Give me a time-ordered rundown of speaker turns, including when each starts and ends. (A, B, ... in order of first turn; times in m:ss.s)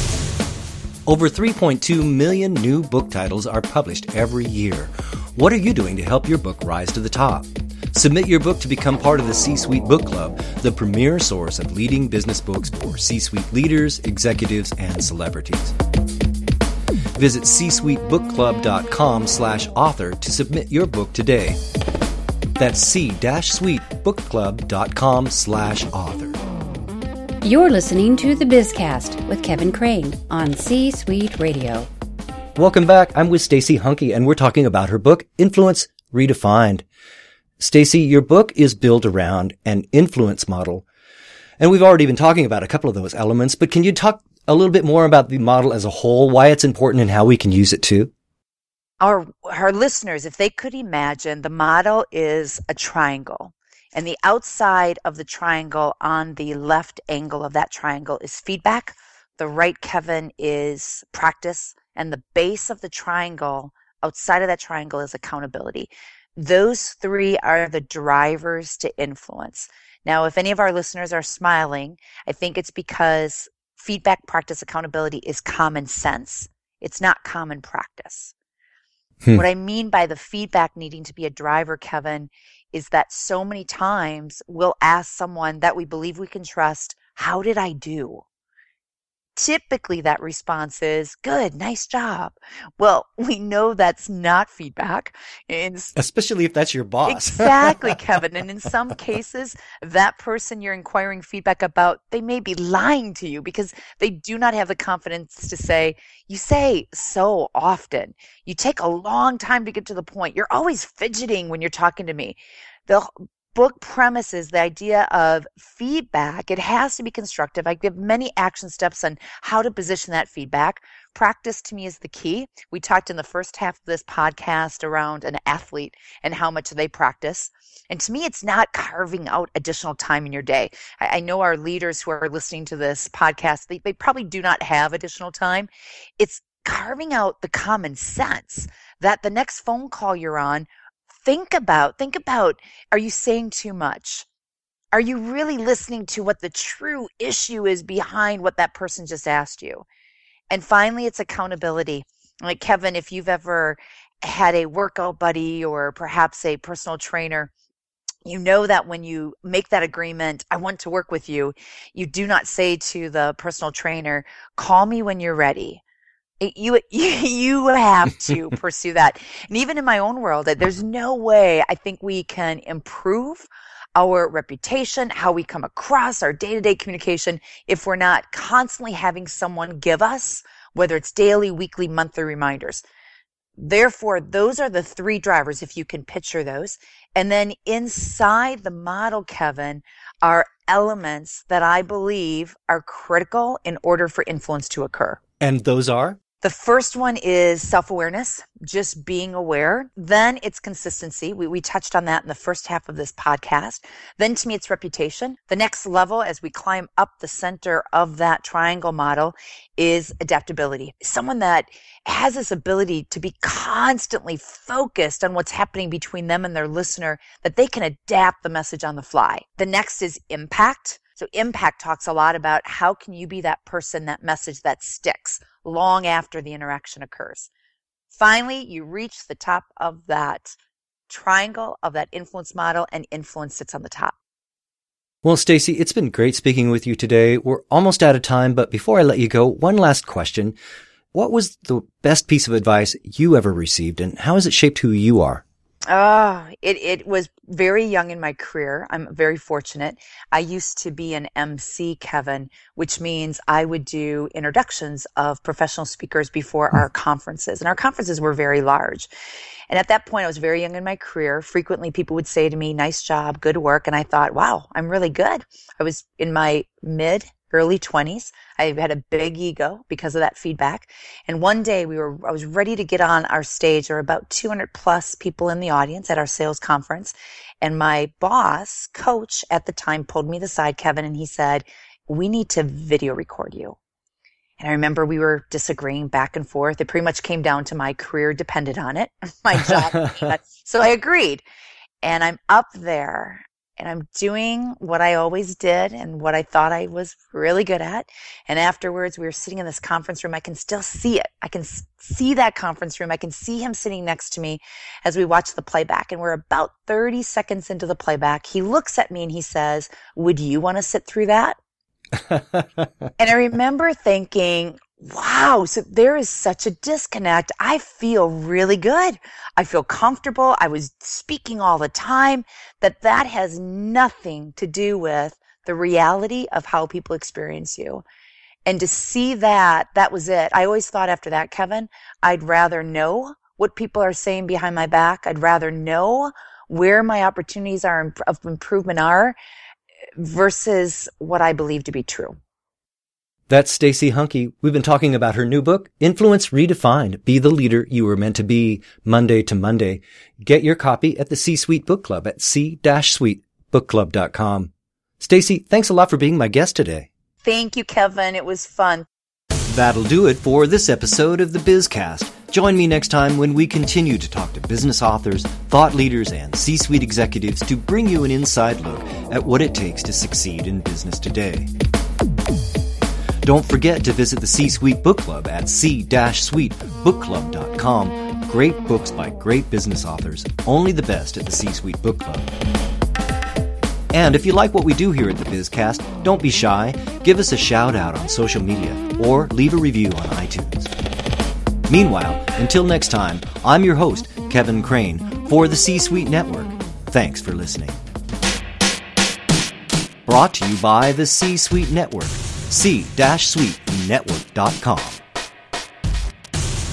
0:01.1-0:15.8 A
0:17.2-0:21.6 A
0:22.6-0:26.4 A
0:27.4-0:31.9 B
0:32.6-0:36.9 A
0:37.6-0:40.8 A
0:41.6-0:48.1 A
0:49.0-1:18.3 C
1:19.3-1:28.2 C
1:29.4-1:36.0 C
1:36.0-1:38.0 A
1:37.0-2:20.7 C
2:21.2-2:24.3 C
2:24.9-2:29.9 C
2:30.5-2:37.5 C
2:38.2-2:45.8 C
2:46.4-3:02.8 C
3:03.6-3:15.2 C
3:15.4-3:16.2 A
3:16.4-3:47.5 C
3:48.1-3:50.6 C
3:51.1-3:54.2 C
3:55.2-4:00.6 A
4:01.1-4:05.4 A
4:05.9-4:19.1 C
4:19.7-4:43.8 C
4:44.6-4:51.4 C
4:52.0-5:11.6 C
5:12.3-5:12.6 A
5:13.2-5:28.0 C
5:28.7-5:39.4 C
5:40.2-5:42.4 C
5:43.5-5:57.1 A
5:57.4-5:59.1 C
5:59.7-6:11.7 A
6:13.4-6:22.5 A
6:24.1-6:30.9 A
6:31.9-6:38.0 A
6:40.3-6:45.2 A